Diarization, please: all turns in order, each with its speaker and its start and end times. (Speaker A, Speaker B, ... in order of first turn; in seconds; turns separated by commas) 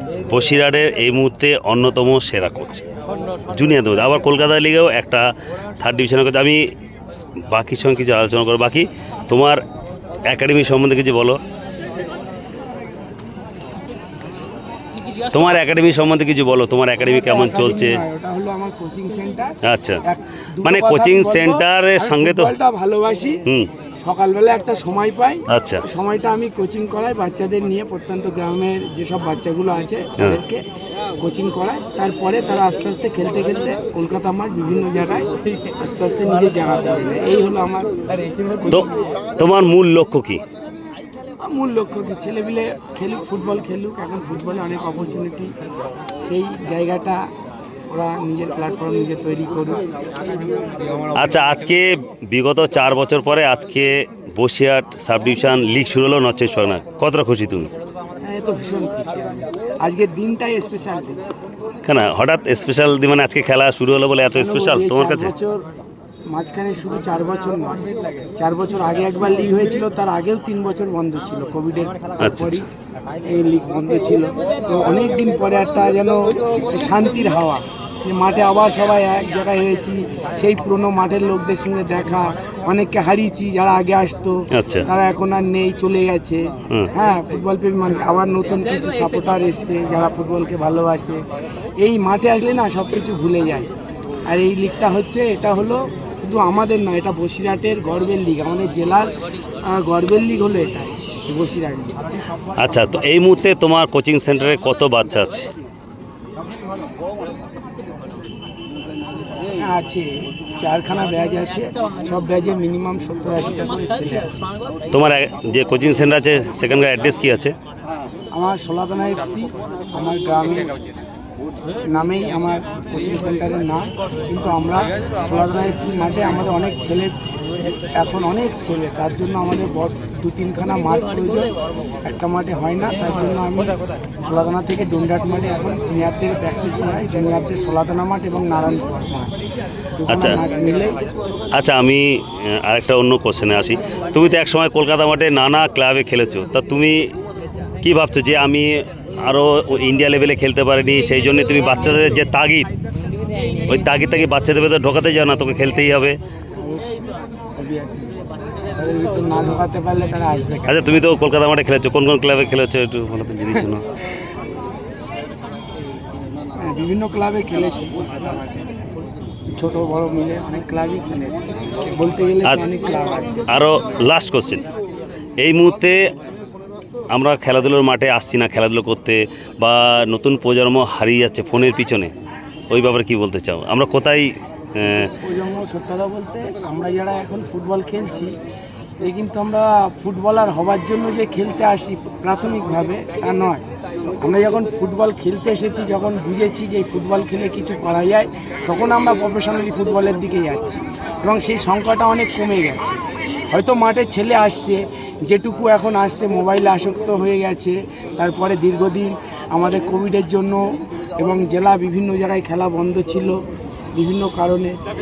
Speaker A: 0.3-2.9, Speaker A: 3.5-5.3, Speaker A: 5.8-6.6, Speaker A: 7.5-9.6, Speaker A: 10.3-11.4, Speaker A: 15.3-18.0, Speaker B: 17.1-23.4, Speaker A: 19.6-20.0, Speaker A: 20.6-22.5, Speaker B: 24.0-30.6, Speaker A: 25.5-25.8, Speaker B: 31.2-38.0, Speaker B: 38.5-38.9, Speaker A: 39.4-40.4, Speaker B: 41.4-45.5, Speaker B: 46.2-47.2, Speaker B: 47.9-49.8, Speaker A: 51.1-57.7, Speaker B: 58.2-61.2, Speaker A: 61.8-65.3, Speaker B: 64.3-65.7, Speaker B: 66.3-67.8, Speaker B: 68.4-72.7, Speaker A: 72.2-72.6, Speaker B: 73.2-91.2, Speaker A: 84.5-84.9, Speaker B: 91.8-93.7, Speaker B: 94.3-102.0, Speaker A: 102.6-105.5, Speaker B: 109.6-114.5, Speaker A: 114.9-117.5, Speaker B: 118.3-120.7, Speaker B: 121.9-127.2, Speaker B: 128.0-131.5, Speaker B: 132.0-139.3, Speaker B: 139.9-141.0, Speaker A: 140.1-140.4, Speaker A: 141.5-147.1, Speaker A: 147.8-152.7, Speaker A: 153.7-156.2, Speaker B: 156.6-157.0, Speaker B: 157.6-158.2, Speaker B: 158.8-161.0, Speaker A: 160.7-163.8, Speaker B: 166.6-168.8, Speaker B: 169.6-173.5, Speaker A: 173.5-174.6, Speaker A: 175.4-176.0, Speaker A: 177.1-182.1, Speaker A: 182.7-185.1, Speaker B: 185.0-188.3, Speaker B: 189.0-202.8, Speaker B: 203.5-210.6, Speaker B: 211.2-213.4, Speaker B: 213.9-214.8